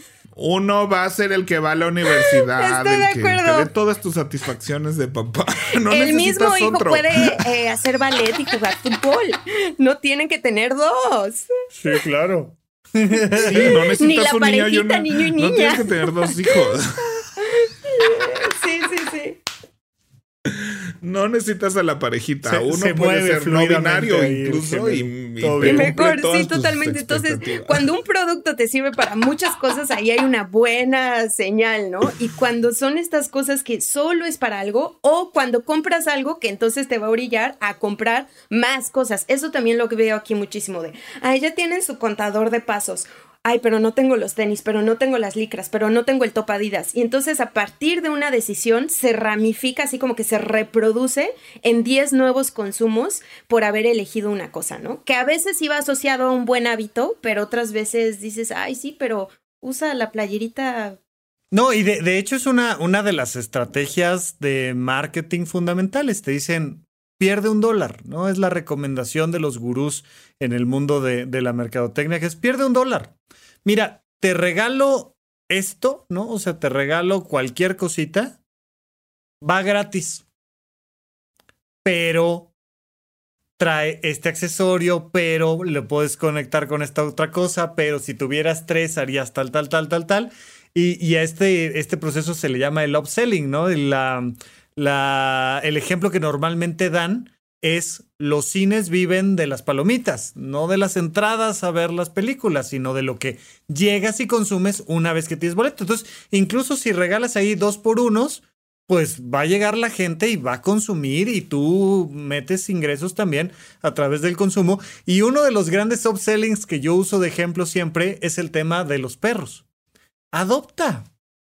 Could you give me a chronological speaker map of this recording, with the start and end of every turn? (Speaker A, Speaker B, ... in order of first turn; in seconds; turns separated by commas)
Speaker A: 0.4-7.5, Speaker B: 2.3-3.7, Speaker B: 5.9-11.5, Speaker C: 11.8-13.8, Speaker B: 13.4-16.5, Speaker A: 13.5-16.9, Speaker B: 17.4-19.4, Speaker A: 20.5-27.9, Speaker C: 22.4-25.9, Speaker B: 25.6-61.0, Speaker C: 61.5-73.1, Speaker C: 73.7-78.4, Speaker C: 79.4-80.2, Speaker C: 81.8-82.5, Speaker C: 83.6-119.6, Speaker C: 120.3-121.1